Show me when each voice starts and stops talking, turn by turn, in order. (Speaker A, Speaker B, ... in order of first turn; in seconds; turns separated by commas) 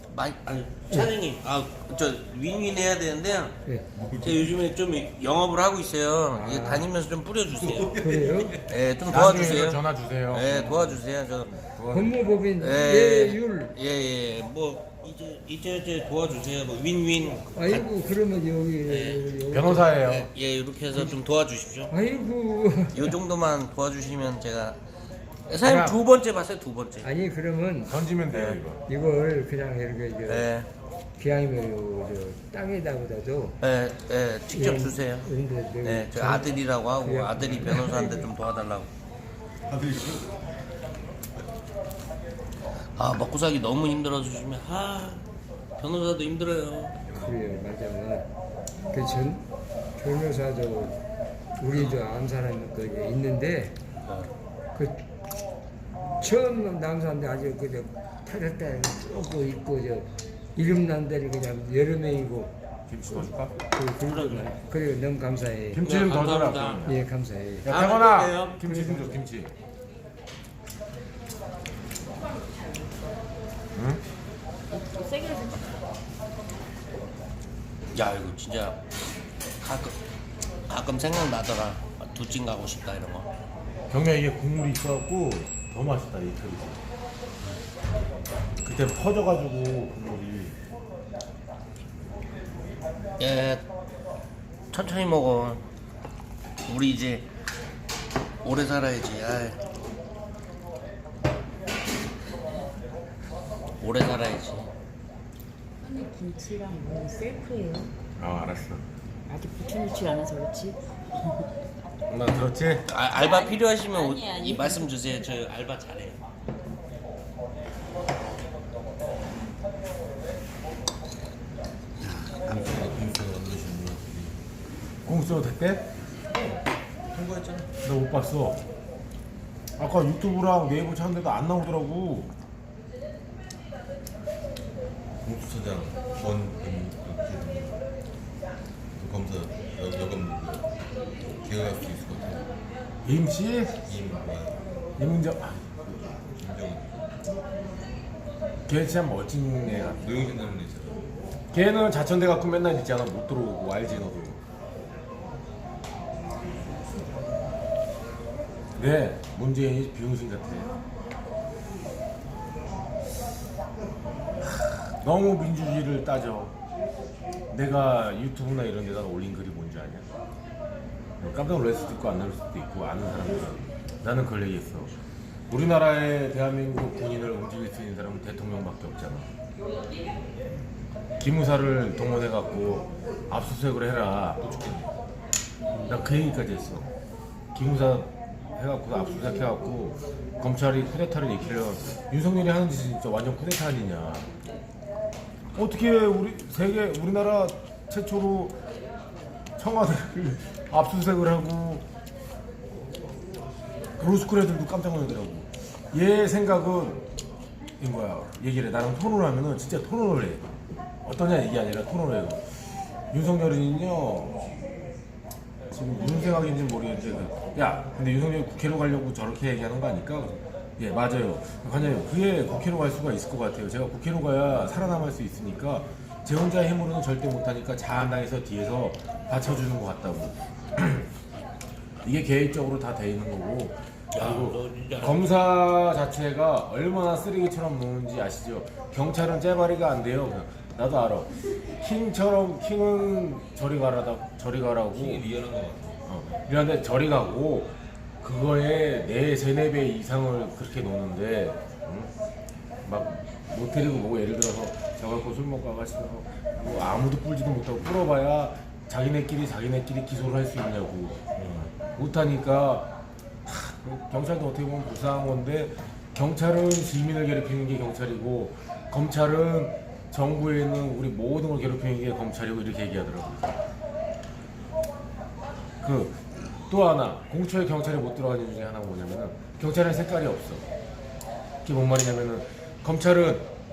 Speaker A: 0.1-3.6, Speaker B: 3.9-4.6, Speaker A: 4.2-7.9, Speaker C: 6.3-6.9, Speaker B: 7.5-8.8, Speaker C: 8.0-8.6, Speaker A: 8.7-11.6, Speaker D: 9.1-12.4, Speaker C: 11.9-13.7, Speaker A: 12.6-17.9, Speaker C: 17.5-19.9, Speaker A: 18.9-19.2, Speaker D: 19.5-20.3, Speaker A: 19.9-21.9, Speaker C: 21.9-23.2, Speaker A: 22.9-24.8, Speaker A: 25.5-27.1, Speaker D: 25.6-26.0, Speaker C: 27.0-28.0, Speaker D: 27.9-28.8, Speaker A: 28.3-28.6, Speaker C: 28.9-30.5, Speaker A: 30.3-30.7, Speaker C: 31.2-33.6, Speaker A: 33.6-35.3, Speaker C: 34.5-38.3, Speaker A: 35.8-38.9, Speaker B: 39.7-40.5, Speaker A: 43.0-45.2, Speaker A: 45.8-47.0, Speaker B: 47.1-47.6, Speaker C: 47.1-48.3, Speaker C: 48.9-49.5, Speaker C: 50.0-51.0, Speaker C: 51.6-53.8, Speaker A: 51.7-52.0, Speaker A: 54.0-54.3, Speaker C: 56.2-62.5, Speaker D: 62.9-63.6, Speaker C: 63.7-65.8, Speaker A: 64.1-64.5, Speaker D: 65.7-67.0, Speaker A: 65.8-66.9, Speaker C: 66.9-67.7, Speaker D: 67.6-69.5, Speaker A: 67.7-68.6, Speaker C: 68.6-69.2, Speaker D: 73.8-74.0, Speaker E: 74.7-75.7, Speaker A: 77.9-78.8, Speaker A: 79.6-80.0, Speaker A: 80.7-83.3, Speaker D: 83.9-86.8, Speaker D: 88.6-90.6, Speaker A: 93.2-93.6, Speaker A: 94.7-95.6, Speaker A: 96.7-97.3, Speaker A: 98.4-99.6, Speaker A: 103.8-104.7, Speaker E: 105.8-107.9, Speaker D: 108.2-108.8, Speaker E: 109.3-111.5, Speaker D: 112.1-112.8, Speaker A: 112.9-116.2, Speaker E: 113.1-115.2, Speaker B: 122.2-124.4, Speaker D: 125.0-125.9, Speaker B: 126.2-127.7, Speaker D: 127.8-128.7, Speaker D: 129.8-132.3, Speaker B: 135.2-137.8, Speaker B: 139.0-142.5, Speaker D: 143.0-143.9, Speaker B: 143.9-144.6, Speaker D: 145.0-146.1, Speaker B: 146.4-147.2, Speaker D: 148.7-150.3, Speaker B: 149.9-151.1, Speaker D: 151.5-154.4, Speaker D: 158.8-160.8, Speaker D: 164.4-166.6, Speaker D: 167.5-170.1, Speaker D: 171.2-174.9, Speaker D: 175.5-179.3, Speaker D: 181.2-184.5, Speaker B: 184.4-184.9, Speaker D: 185.9-186.9, Speaker D: 187.5-194.3, Speaker D: 195.6-198.6, Speaker D: 199.6-201.8, Speaker D: 204.0-207.1, Speaker D: 207.8-210.5, Speaker D: 211.0-214.5, Speaker D: 215.7-231.1, Speaker D: 232.0-245.2, Speaker A: 234.1-235.3, Speaker B: 244.9-246.1, Speaker D: 246.1-252.1, Speaker D: 252.9-261.2, Speaker B: 261.4-261.7, Speaker D: 261.8-273.6, Speaker D: 275.8-280.7, Speaker D: 281.6-283.5